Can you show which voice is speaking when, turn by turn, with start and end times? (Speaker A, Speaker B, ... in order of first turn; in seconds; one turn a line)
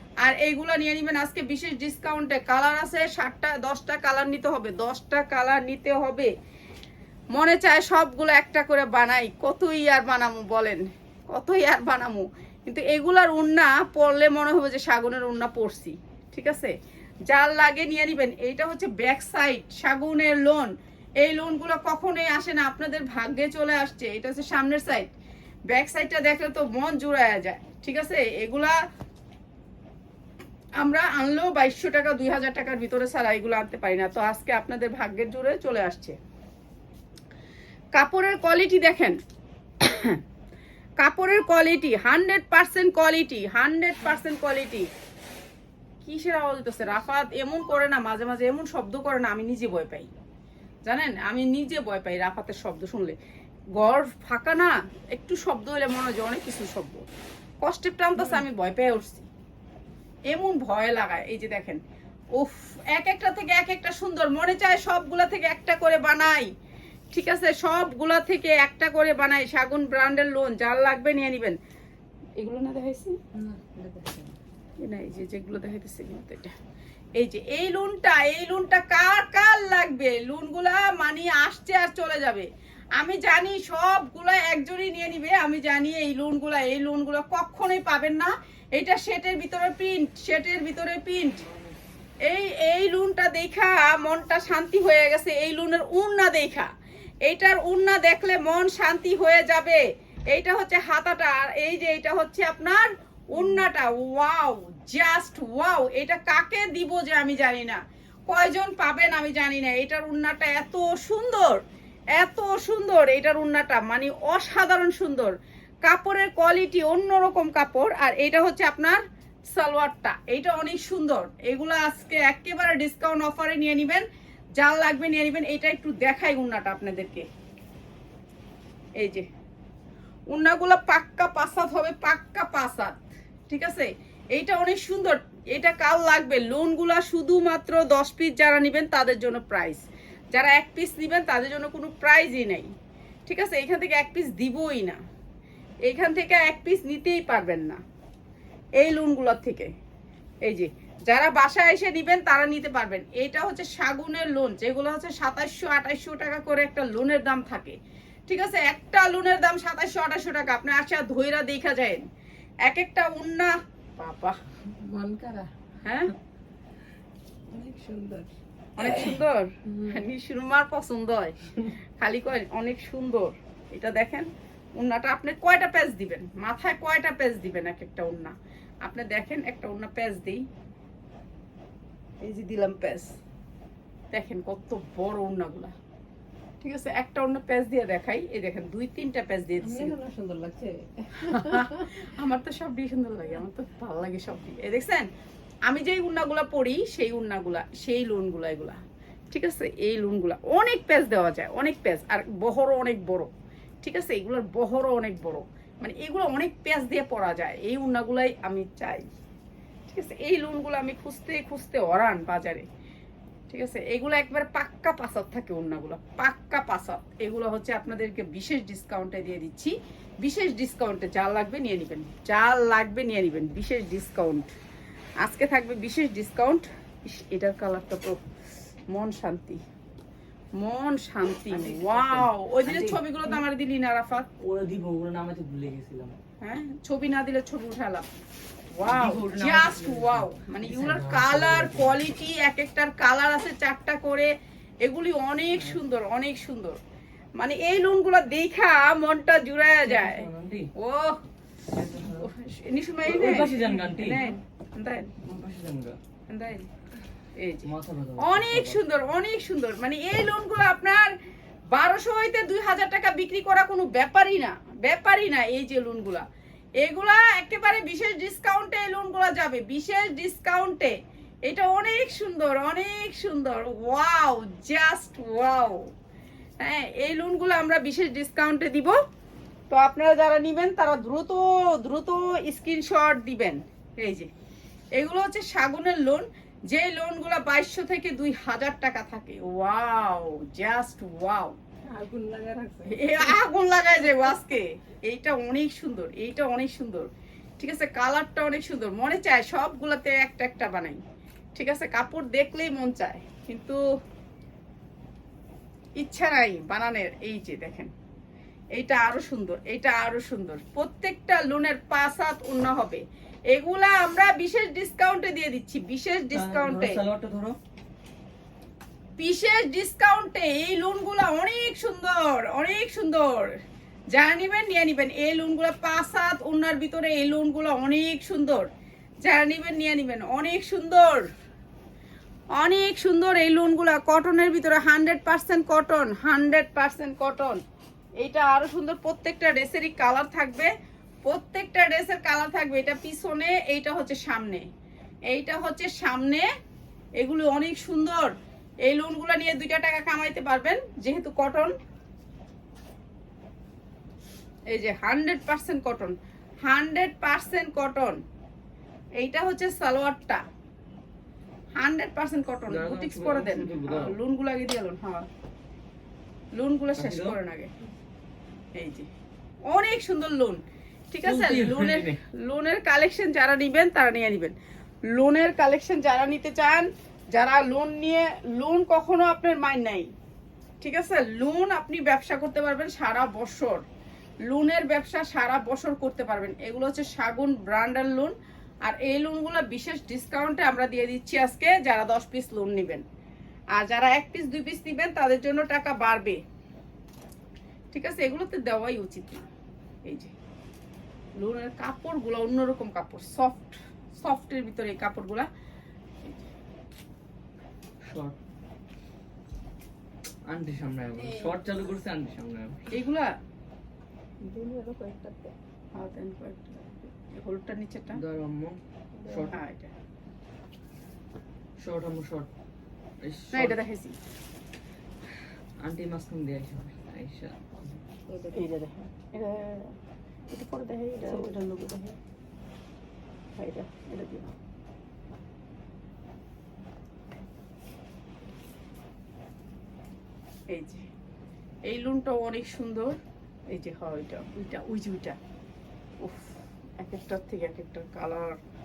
Speaker A: 0.2-6.3
Speaker A: 7.3-16.7
Speaker A: 17.3-25.1
Speaker A: 25.7-28.8
Speaker A: 30.8-36.2
Speaker A: 37.9-39.2
Speaker A: 39.8-40.2
Speaker A: 41.0-44.9
Speaker A: 46.0-50.1
Speaker A: 50.9-53.1
Speaker A: 53.8-57.0
Speaker A: 57.6-59.3
Speaker B: 58.2-58.4
Speaker A: 60.3-61.8
Speaker A: 62.4-66.5
Speaker A: 67.1-71.6
Speaker A: 72.4-73.2
Speaker B: 73.3-74.3
Speaker A: 74.8-76.5
Speaker A: 77.2-91.4
Speaker C: 91.4-91.7
Speaker A: 92.2-96.7
Speaker A: 97.2-111.6
Speaker B: 103.4-103.6
Speaker A: 112.1-119.0
Speaker A: 119.5-124.0
Speaker A: 124.6-127.3
Speaker A: 129.0-129.2
Speaker A: 130.3-142.7
Speaker A: 143.3-145.0
Speaker A: 145.8-147.8
Speaker A: 148.8-149.7
Speaker A: 150.4-157.8
Speaker A: 158.3-162.0
Speaker A: 162.6-164.4
Speaker B: 164.8-165.5
Speaker A: 165.8-166.1
Speaker B: 167.5-170.0
Speaker A: 168.8-180.4
Speaker A: 182.2-183.1
Speaker A: 184.1-185.7
Speaker A: 186.6-190.0
Speaker B: 189.6-191.9
Speaker A: 191.2-195.1
Speaker A: 195.7-198.8
Speaker A: 199.3-203.3
Speaker A: 203.8-209.1
Speaker A: 209.9-212.7
Speaker A: 213.5-224.5
Speaker A: 225.2-228.2
Speaker A: 228.9-229.6
Speaker A: 230.6-234.3
Speaker C: 231.5-233.0
Speaker C: 234.4-236.1
Speaker A: 236.4-238.1
Speaker A: 238.7-244.3
Speaker C: 238.8-242.0
Speaker A: 244.8-246.8
Speaker A: 247.4-251.2
Speaker C: 249.8-250.7
Speaker C: 251.7-252.3
Speaker A: 252.1-255.1
Speaker C: 253.0-254.2
Speaker C: 255.2-256.0
Speaker A: 256.3-256.7
Speaker A: 257.4-261.1
Speaker C: 257.6-258.8
Speaker A: 261.7-266.2
Speaker A: 266.8-270.9
Speaker A: 271.4-275.9
Speaker A: 276.6-278.9
Speaker A: 279.7-284.3
Speaker A: 284.9-291.5
Speaker B: 291.9-293.4
Speaker A: 292.9-297.1
Speaker A: 297.6-301.0
Speaker A: 301.5-303.8
Speaker A: 306.0-307.9
Speaker A: 308.7-317.0
Speaker C: 316.3-317.6
Speaker A: 319.2-323.6
Speaker A: 324.1-328.7
Speaker A: 329.2-331.3
Speaker A: 332.6-337.6
Speaker A: 338.2-340.7
Speaker A: 341.2-344.6
Speaker A: 345.3-346.5
Speaker A: 347.2-348.3
Speaker A: 348.9-351.7
Speaker A: 354.7-358.2
Speaker A: 359.2-360.4
Speaker A: 361.8-365.3
Speaker C: 362.7-364.1
Speaker A: 366.6-367.7
Speaker C: 366.9-367.4
Speaker A: 368.8-369.1
Speaker A: 369.7-370.6
Speaker A: 371.1-374.5
Speaker C: 371.2-372.2
Speaker A: 375.1-380.1
Speaker A: 380.8-383.8
Speaker A: 384.5-393.0
Speaker A: 393.7-396.4
Speaker A: 397.9-399.5
Speaker A: 400.1-400.3
Speaker A: 401.4-405.5
Speaker A: 406.2-406.5
Speaker C: 408.1-408.4
Speaker C: 410.5-412.9
Speaker A: 412.9-413.3
Speaker B: 414.4-415.5
Speaker A: 415.9-418.2
Speaker C: 418.1-419.6
Speaker B: 419.2-419.6
Speaker A: 419.5-419.9
Speaker C: 421.8-422.5
Speaker C: 423.2-423.8
Speaker A: 423.5-424.1
Speaker C: 425.8-428.0
Speaker B: 428.3-428.7
Speaker A: 428.5-429.9
Speaker A: 430.5-432.1
Speaker B: 431.2-431.6
Speaker A: 433.6-434.5
Speaker A: 440.7-441.1
Speaker A: 441.9-443.2
Speaker A: 443.7-445.4
Speaker A: 446.2-448.6